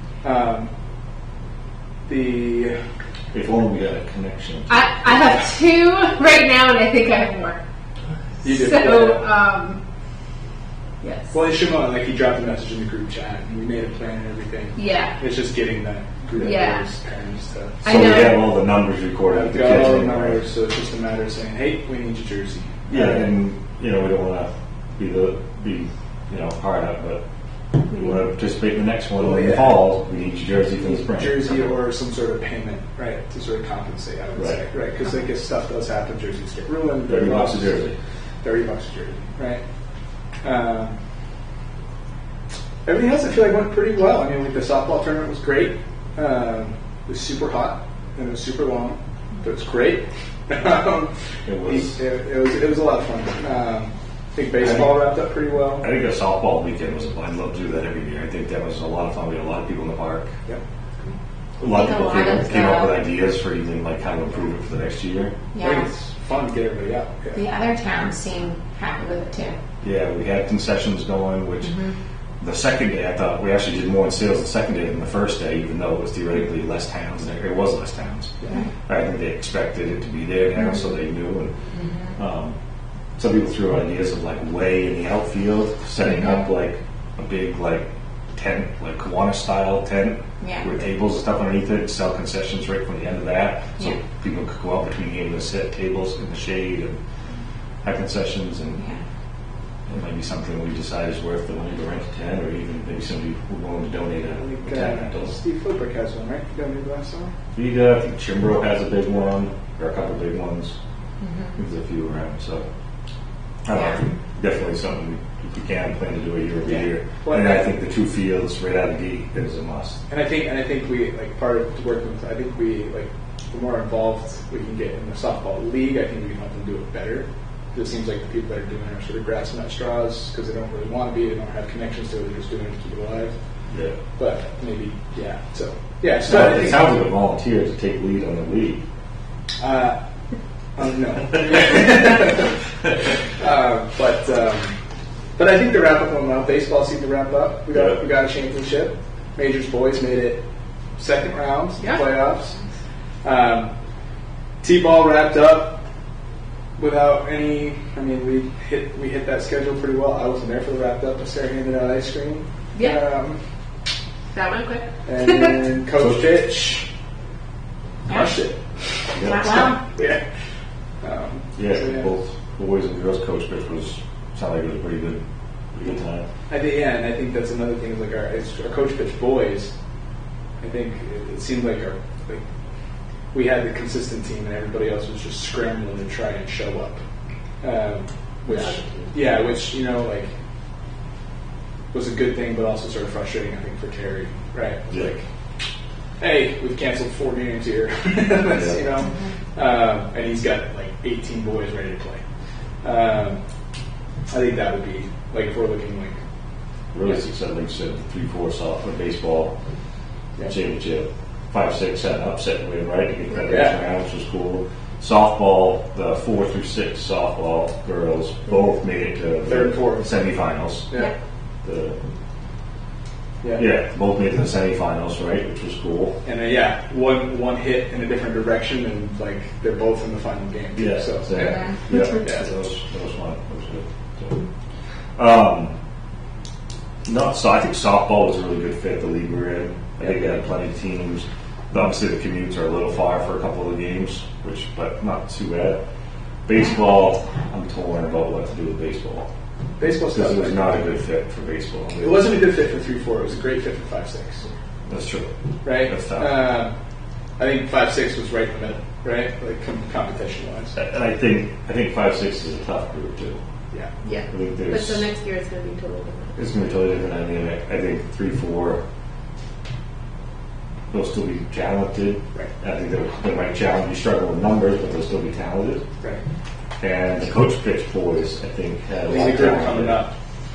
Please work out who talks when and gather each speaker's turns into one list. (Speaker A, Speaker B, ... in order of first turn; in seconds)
Speaker A: 0.2-0.7, 2.1-2.8, 8.4-9.2, 11.3-18.1, 19.3-23.3, 29.2-29.7, 30.8-37.9, 38.4-39.6, 40.4-41.0, 42.9-51.1, 51.6-55.8, 60.5-61.2, 65.6-67.4, 78.4-78.7, 104.4-107.3, 116.6-117.7, 120.1-133.3, 134.2-136.9, 139.6-140.0, 140.8-142.6, 143.2-144.8, 145.4-150.4, 151.0-152.6, 153.2-153.7, 154.6-155.8, 156.8-163.4, 165.1-166.9, 168.1-168.6, 169.9-170.2, 171.0-172.1, 176.5-179.7, 180.6-182.4, 183.3-187.0, 187.6-190.3, 191.9-195.2, 196.2-202.2, 202.8-203.4, 204.3-206.2, 213.4-213.8, 219.4-220.2, 226.2-232.5, 249.8-250.9, 252.0-254.5, 255.6-256.7, 257.4-260.8, 279.1-280.1
Speaker B: 3.3-5.5, 17.8-20.4, 22.9-27.2, 27.9-31.7, 34.4-34.6, 37.1-38.0, 51.5-52.0, 54.6-55.0, 55.8-60.3, 61.6-65.3, 69.8-78.3, 78.9-81.5, 82.1-82.6, 83.2-87.8, 88.4-97.0, 97.8-98.8, 99.9-105.3, 107.5-110.8, 111.6-112.7, 113.7-120.0, 133.7-134.0, 136.3-138.8, 166.0-166.2, 169.2-169.8, 171.6-175.2, 175.7-176.2, 194.9-195.1, 198.4-198.9, 206.9-209.5, 210.5-220.9, 221.6-222.0, 223.6-226.2, 230.8-234.4, 235.2-235.8, 237.1-245.8, 246.5-249.3, 250.1-252.3, 254.9-256.5, 260.8-263.4, 264.3-265.1, 266.4-268.8, 270.9-275.8, 276.8-280.1
Speaker C: 4.7-7.6, 8.4-9.8, 11.0-11.3, 14.8-15.2, 16.4-16.9, 17.8-18.5, 164.3-165.5, 188.5-189.1, 264.0-266.4
Speaker D: 61.7-63.0, 65.5-65.9, 67.3-69.6, 71.7-71.9, 81.7-82.2, 86.1-86.5, 90.4-90.7, 111.2-111.5, 113.7-114.0, 169.2-169.8, 199.1-199.3